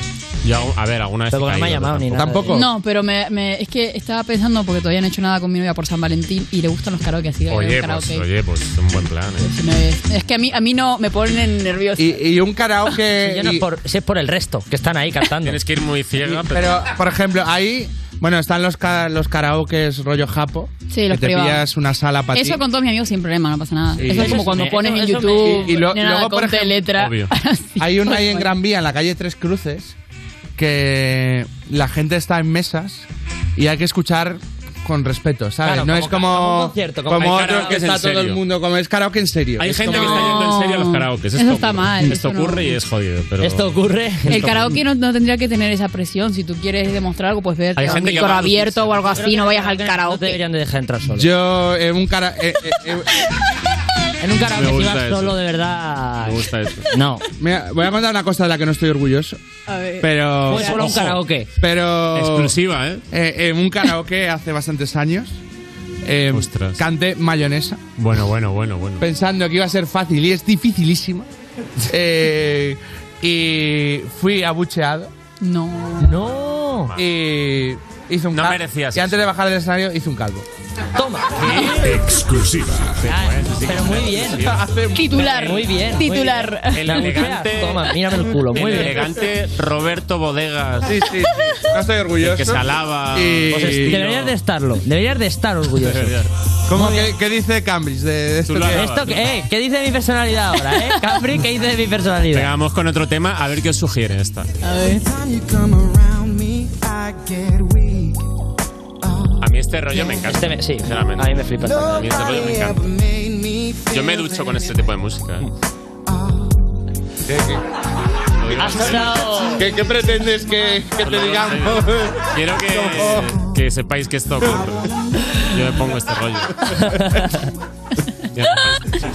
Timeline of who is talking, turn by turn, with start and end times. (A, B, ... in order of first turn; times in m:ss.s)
0:00.4-0:02.2 A
0:01.3-0:02.6 B
0:02.1-0:02.7 C
0:02.5-0:08.2 D
0:07.5-0:09.5 A
0:09.4-0:12.2 D
0:12.0-0:13.6 C
0:13.2-0:15.6 B
0:15.4-0:16.9 A
0:16.2-0:22.6 C
0:20.9-0:21.7 D
0:22.3-0:28.5 D
0:24.0-0:24.5 C
0:24.1-0:25.8 B
0:25.4-0:26.8 C
0:27.0-0:27.3 A
0:27.8-0:30.0 C
0:30.6-0:40.4 C
0:35.6-0:37.7 B
0:37.2-0:38.4 A
0:39.6-0:43.7 A
0:39.9-0:42.8 D
0:43.4-0:44.7 B
0:44.3-0:44.8 A
0:44.3-0:50.4 D
0:47.8-0:49.2 A
0:47.8-0:48.3 B
0:49.1-0:51.3 B
0:51.1-0:53.1 C
0:54.2-0:57.2 B
0:54.5-0:55.4 A
0:56.2-0:56.9 A
0:57.4-0:59.4 C
0:59.7-1:00.1 D
1:00.0-1:00.8 C
1:00.5-1:01.5 B
1:00.7-1:01.2 A
1:01.6-1:02.5 C
1:02.1-1:03.0 A
1:03.1-1:05.4 C
1:06.0-1:07.8 C
1:06.3-1:06.8 A
1:08.0-1:09.0 A
1:09.0-1:11.3 C
1:11.9-1:15.1 C
1:15.4-1:16.1 D
1:16.0-1:16.9 B
1:17.0-1:20.5 C
1:18.3-1:19.2 A
1:21.0-1:22.1 B
1:22.8-1:24.7 A
1:23.1-1:24.5 B
1:24.3-1:25.3 C
1:25.0-1:27.0 D
1:25.2-1:29.1 B
1:26.7-1:28.0 A
1:28.5-1:31.0 A
1:30.8-1:34.0 C
1:32.2-1:34.4 A
1:33.5-1:36.2 B
1:35.8-1:36.3 A
1:36.7-1:38.9 C
1:36.7-1:37.1 B
1:38.5-1:39.2 A
1:38.7-1:42.5 B
1:42.3-1:44.5 A
1:44.6-1:45.0 D
1:49.4-1:52.8 A
1:50.2-1:52.3 B
1:53.9-1:55.5 A
1:57.3-1:57.6 C
1:58.4-1:59.5 A
1:58.6-1:59.7 B
1:58.6-1:58.9 C
1:59.6-2:03.4 C
2:01.0-2:06.9 A
2:06.7-2:07.4 B
2:08.3-2:08.9 A